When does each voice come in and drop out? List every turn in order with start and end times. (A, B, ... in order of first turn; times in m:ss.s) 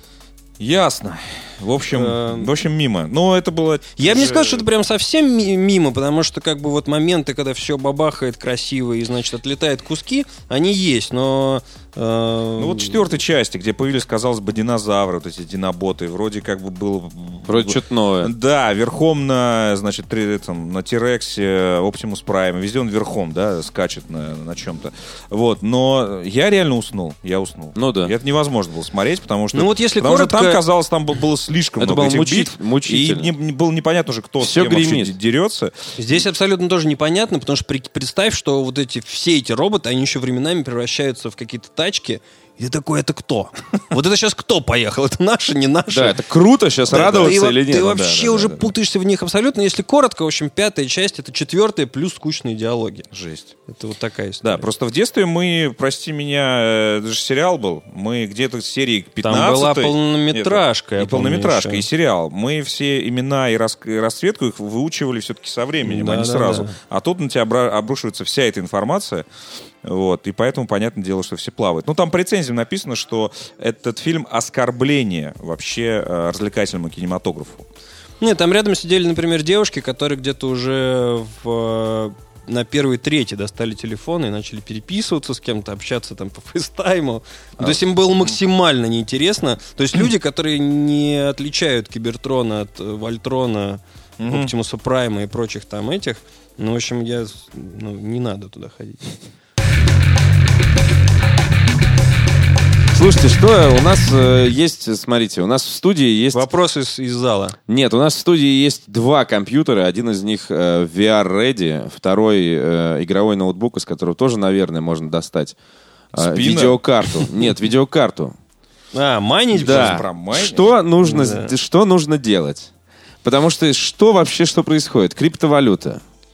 0:00.6-0:04.6 A
0:01.9-0:02.5 B
0:04.0-0:13.0 B
0:12.6-0:35.9 A
0:17.5-0:18.3 C
0:27.8-0:28.1 C
0:29.5-0:30.6 B
0:31.8-0:33.3 C
0:34.4-0:35.2 C
0:36.0-0:46.2 B
0:45.9-0:48.4 C
0:46.9-0:53.1 B
0:46.9-0:48.7 A
0:53.1-0:53.5 A
0:53.7-0:54.7 B
0:54.4-1:09.2 A
0:59.2-1:01.8 B
1:05.8-1:06.8 B
1:09.8-1:17.6 A
1:18.2-1:39.1 B
1:27.6-1:28.4 A
1:34.2-1:34.5 A
1:42.9-1:46.5 C
1:46.3-1:47.6 B
1:47.7-1:55.6 C
1:56.1-1:57.2 A
1:56.1-1:58.3 C
1:58.9-2:00.0 B
1:59.5-2:00.7 A
1:59.6-2:02.7 C
2:01.0-2:01.5 B
2:03.2-2:06.0 C